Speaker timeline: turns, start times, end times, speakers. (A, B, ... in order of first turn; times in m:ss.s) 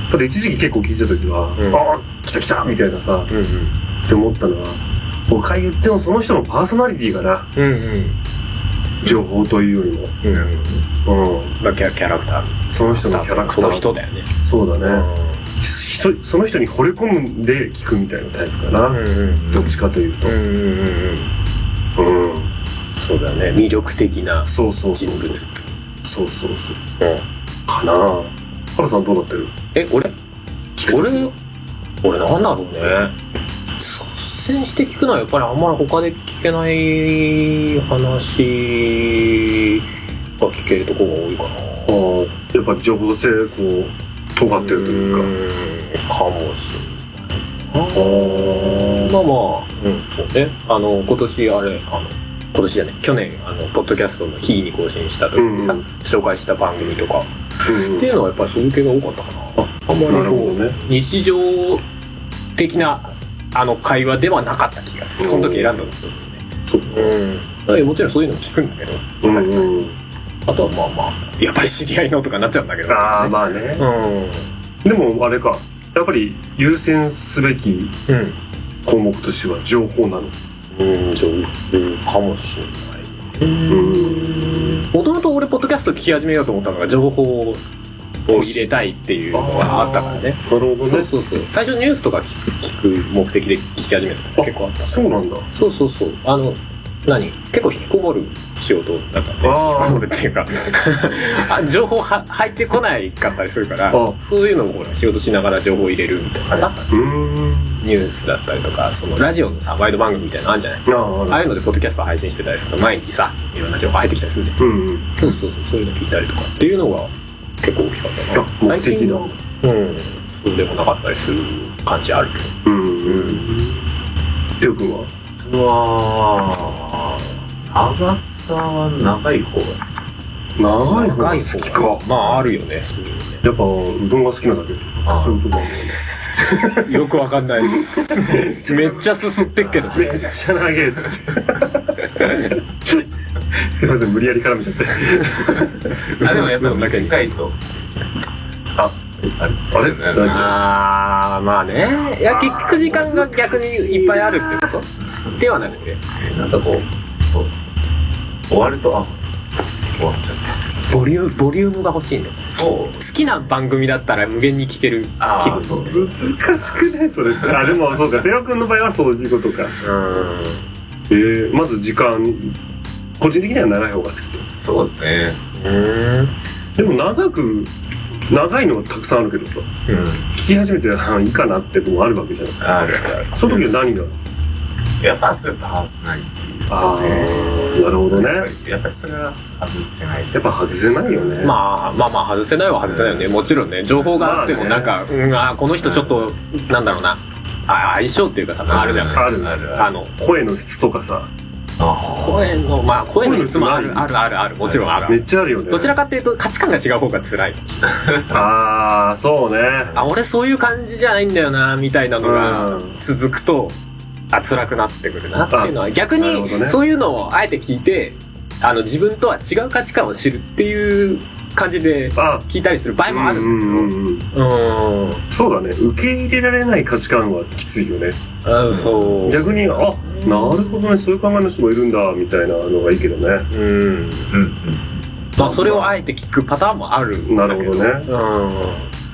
0:00.1-0:03.3 A
0:01.6-0:01.9 B
0:03.3-0:03.7 B
0:04.1-0:07.5 A
0:07.6-0:08.2 B
0:09.0-0:10.2 A
0:10.2-0:10.8 B
0:10.3-0:10.6 C
0:11.0-0:11.6 A
0:11.6-0:15.4 B
0:12.7-0:15.1 A
0:15.6-0:20.4 A
0:18.9-0:19.4 B
0:19.4-0:19.8 C
0:20.2-0:21.3 B
0:22.0-0:22.5 A
0:22.9-0:25.7 B
0:24.4-0:25.4 A
0:26.0-0:26.8 A
0:27.7-0:29.5 A
0:29.7-0:30.1 B
0:30.8-0:31.3 B
0:30.8-0:31.3 A
0:32.0-0:33.1 B
0:33.8-0:39.8 B
0:40.4-0:41.9 B
0:41.8-0:45.3 A
0:44.6-1:01.8 B
0:47.9-0:49.1 A
0:55.4-0:55.8 A
0:57.7-0:58.0 A
0:59.6-1:00.8 A
1:02.6-1:06.4 B
1:05.2-1:05.7 A
1:06.7-1:07.2 A
1:06.9-1:09.9 B
1:09.2-1:09.9 A
1:10.5-1:14.5 B
1:12.9-1:13.8 A
1:14.8-1:18.0 A
1:18.1-1:18.4 B
1:18.8-1:20.4 A
1:20.8-1:27.6 B
1:23.7-1:24.8 A
1:28.2-1:46.9 B
1:28.3-1:28.7 A
1:29.3-1:31.1 A
1:34.4-1:35.4 A
1:39.4-1:40.1 A
1:43.9-1:44.2 A
1:46.5-1:47.8 A
1:47.8-1:57.1 B
1:50.8-1:51.5 A
1:54.6-1:55.1 A
1:57.6-2:03.6 B
1:58.3-1:59.3 A
2:02.6-2:03.8 A
2:04.6-2:05.1 A
2:05.4-2:10.6 C
2:10.6-2:12.0 A
2:10.8-2:13.4 B
2:13.4-2:16.9 A
2:15.0-2:15.4 C
2:16.2-2:20.3 B
2:17.7-2:19.1 A
2:19.9-2:25.8 A
2:26.0-2:27.2 B
2:26.2-2:27.6 C
2:28.7-2:30.6 C
2:29.7-2:30.6 A
2:30.2-2:34.8 B
2:32.4-2:34.6 A
2:35.0-2:37.5 C
2:35.4-2:36.0 B
2:38.5-2:39.2 C
2:40.0-2:40.6 C
2:40.9-2:46.2 B
2:42.4-2:43.0 C
2:45.2-2:47.7 C
2:46.0-2:50.2 A
2:49.8-2:50.6 B
2:51.1-2:52.6 A
2:53.2-2:54.5 A
2:54.4-2:55.4 C
2:55.6-2:56.3 B
2:56.8-2:57.7 A
2:58.3-2:59.8 A
2:59.9-3:00.3 C
3:00.3-3:04.2 A
3:02.6-3:03.6 C
3:05.0-3:11.5 C
3:06.7-3:08.5 A
3:07.2-3:07.9 B
3:10.3-3:11.6 A
3:11.4-3:20.1 B
3:12.8-3:13.4 C
3:14.1-3:15.0 A
3:15.8-3:16.3 C
3:18.7-3:19.9 C
3:19.1-3:21.3 A
3:21.8-3:22.2 C
3:21.9-3:27.9 B
3:23.2-3:24.1 A
3:24.6-3:24.9 C
3:25.1-3:26.0 A
3:28.0-3:28.5 C
3:28.3-3:29.9 A
3:29.9-3:33.8 B
3:32.2-3:33.0 A
3:34.3-3:45.2 B
3:35.5-3:36.8 A
3:42.1-3:42.4 A
3:43.1-3:44.3 A
3:45.3-3:48.2 A
3:48.4-3:50.9 B
3:48.7-3:49.2 C
3:49.2-3:53.5 A
3:53.5-3:54.3 B
3:54.3-3:55.1 C
3:55.4-3:58.9 B
3:55.4-3:55.9 A
3:57.3-3:58.1 A